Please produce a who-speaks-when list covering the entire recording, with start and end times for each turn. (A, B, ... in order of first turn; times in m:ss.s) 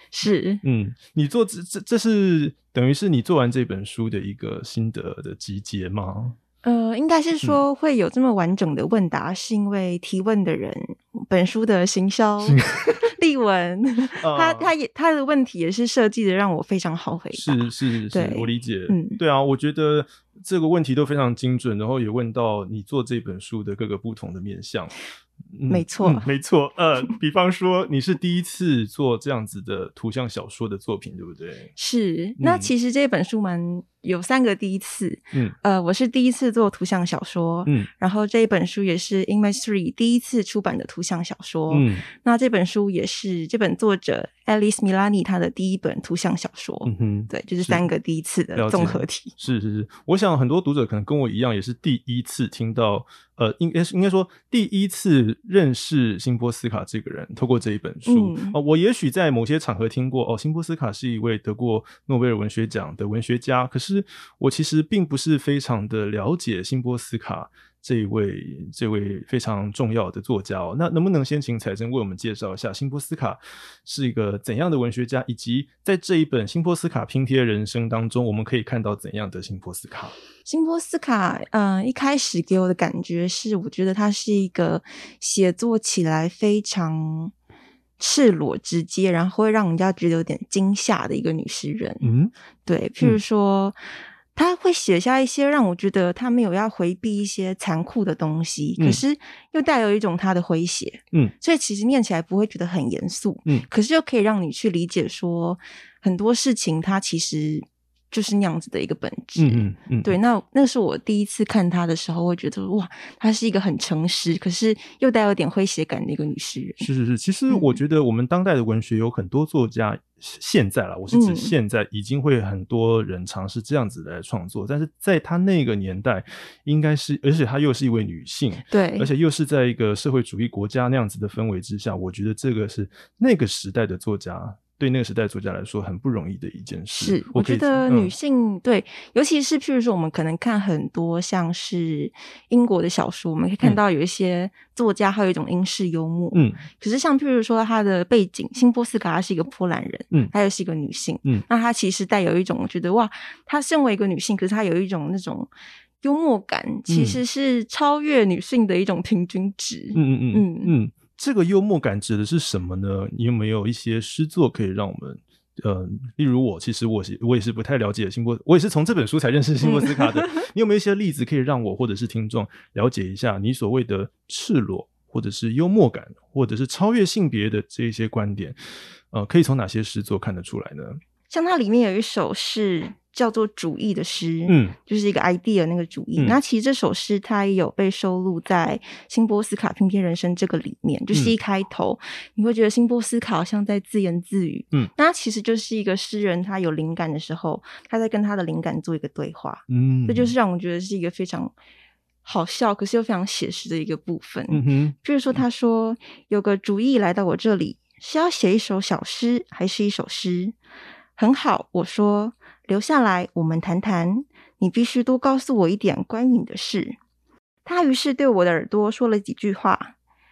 0:00.1-0:00.6 A
0:00.6-0:06.4 B
0:06.6-0:19.2 A
0:12.4-0:13.1 B
0:14.2-0:14.7 B
0:17.3-0:25.0 B
0:25.5-0:31.7 B
0:25.7-0:26.3 A
0:31.8-0:49.3 A
0:32.4-0:32.7 B
0:41.7-0:42.1 B
0:46.8-0:47.9 B
0:48.6-1:20.2 B
0:58.1-0:58.6 A
1:20.5-1:27.3 A
1:28.0-1:32.1 A
1:32.0-1:32.3 B
1:32.7-1:33.8 A
1:34.4-1:56.9 A
1:49.4-1:50.2 B
1:56.8-2:18.1 B
1:57.5-1:57.8 A
2:01.1-2:01.5 A
2:08.7-2:09.1 A
2:16.9-2:35.5 A
2:26.3-2:26.6 B
2:36.0-2:40.7 A
2:36.9-2:37.2 B
2:40.0-2:58.6 B
2:49.6-2:50.5 A
2:59.1-3:01.0 B
3:01.3-3:21.5 A
3:04.5-3:04.8 B
3:19.7-3:20.4 B
3:22.2-3:30.6 A
3:24.5-3:25.4 B
3:31.2-3:37.0 A
3:37.6-3:39.9 A